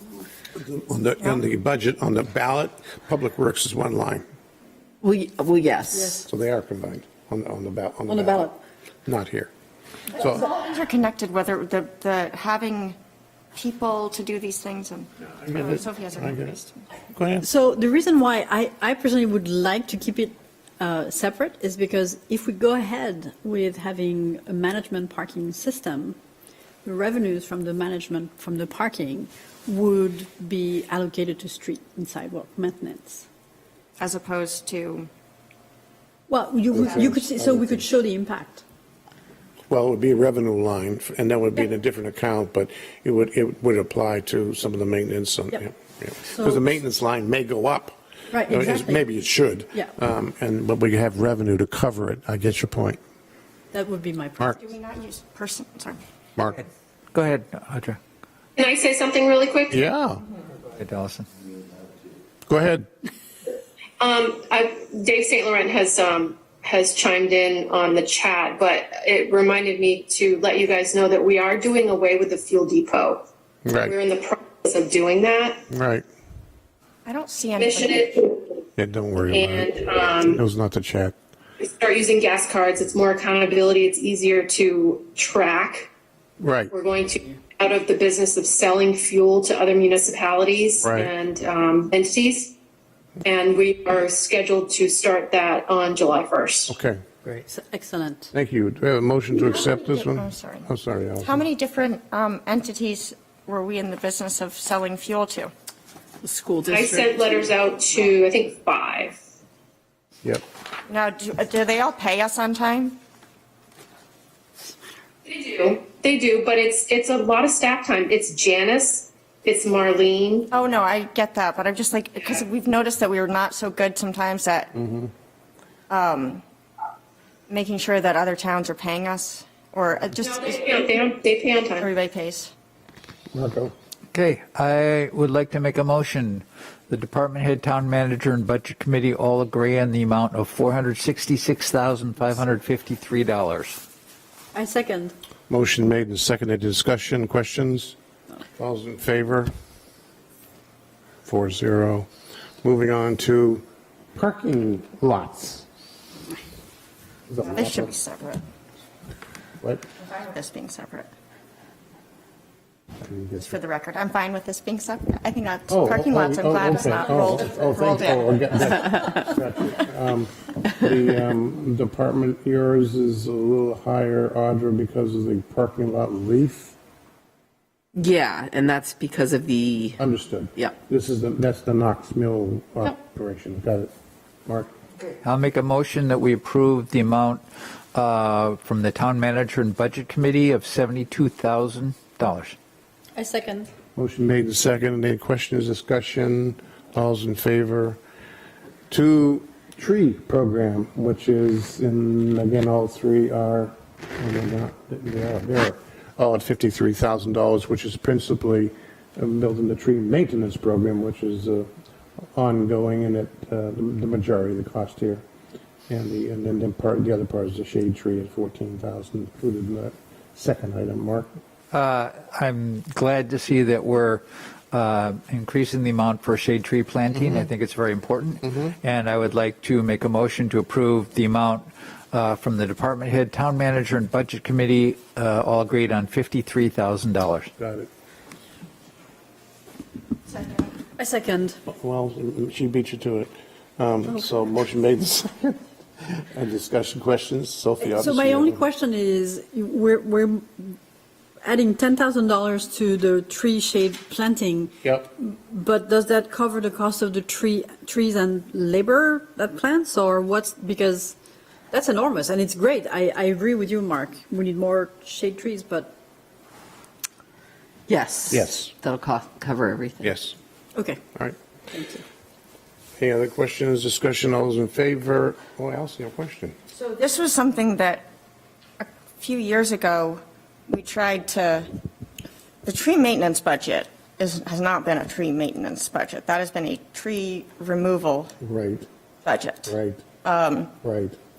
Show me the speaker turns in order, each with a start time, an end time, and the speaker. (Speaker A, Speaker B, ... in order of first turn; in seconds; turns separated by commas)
Speaker A: 0.6-4.2, Speaker B: 5.0-6.3, Speaker C: 5.9-6.2, Speaker A: 6.3-8.5, Speaker C: 8.1-8.6, Speaker A: 9.1-9.5, Speaker A: 10.2-10.5, Speaker D: 10.2-13.0, Speaker D: 13.6-16.8, Speaker A: 15.4-16.6, Speaker A: 17.1-17.5, Speaker C: 17.4-26.2, Speaker C: 26.9-33.2, Speaker D: 34.0-35.1, Speaker C: 36.3-38.6, Speaker A: 36.7-37.9, Speaker A: 39.7-48.0, Speaker C: 46.3-46.7, Speaker C: 48.3-49.1, Speaker A: 48.5-53.0, Speaker C: 53.7-54.6, Speaker D: 54.6-56.0, Speaker E: 57.1-58.0, Speaker F: 58.6-59.8, Speaker A: 59.7-60.2, Speaker E: 60.6-61.3, Speaker A: 62.5-62.9, Speaker F: 64.0-73.2, Speaker A: 73.7-73.9, Speaker F: 73.8-75.6, Speaker A: 75.7-76.0, Speaker D: 77.0-78.2, Speaker F: 77.6-78.4, Speaker A: 78.8-81.2, Speaker F: 79.3-80.4, Speaker F: 81.6-85.9, Speaker A: 86.4-86.7, Speaker F: 86.7-92.5, Speaker A: 90.8-91.1, Speaker F: 93.2-96.8, Speaker A: 96.7-97.0, Speaker C: 97.2-98.3, Speaker A: 98.3-101.3, Speaker D: 99.3-100.7, Speaker D: 101.2-105.5, Speaker B: 106.2-107.1, Speaker F: 106.7-109.2, Speaker D: 110.9-113.0, Speaker F: 115.3-120.5, Speaker D: 120.5-124.8, Speaker A: 124.8-125.1, Speaker D: 125.9-126.4, Speaker D: 127.5-130.9, Speaker F: 130.3-131.9, Speaker D: 131.7-132.5, Speaker A: 133.3-133.7, Speaker E: 134.1-143.8, Speaker C: 144.5-145.2, Speaker A: 145.5-147.9, Speaker A: 148.6-149.5, Speaker A: 151.2-152.1, Speaker A: 152.6-153.6, Speaker A: 154.2-155.7, Speaker A: 157.3-157.9, Speaker D: 157.4-158.4, Speaker D: 160.0-161.1, Speaker A: 163.0-163.6, Speaker D: 163.4-168.3, Speaker A: 165.7-176.8, Speaker B: 177.9-180.0, Speaker A: 180.0-183.9, Speaker A: 184.5-184.7, Speaker E: 185.2-187.4, Speaker E: 187.9-192.6, Speaker C: 193.2-193.7, Speaker A: 194.0-198.0, Speaker A: 198.9-211.7, Speaker A: 212.3-215.2, Speaker A: 215.9-221.3, Speaker E: 221.7-237.5, Speaker A: 237.6-237.9, Speaker C: 241.0-241.6, Speaker A: 241.7-248.6, Speaker C: 247.8-250.8, Speaker C: 251.4-261.1, Speaker A: 254.8-255.1, Speaker C: 261.7-265.9, Speaker B: 267.9-270.2, Speaker A: 268.3-268.7, Speaker A: 270.0-270.4, Speaker C: 270.8-271.0, Speaker C: 271.7-272.0, Speaker A: 273.0-276.6, Speaker D: 276.8-278.1, Speaker D: 278.8-281.7, Speaker D: 282.6-288.3, Speaker A: 288.4-288.9, Speaker D: 289.2-289.7, Speaker A: 289.7-290.0, Speaker D: 290.2-290.7, Speaker A: 290.8-291.2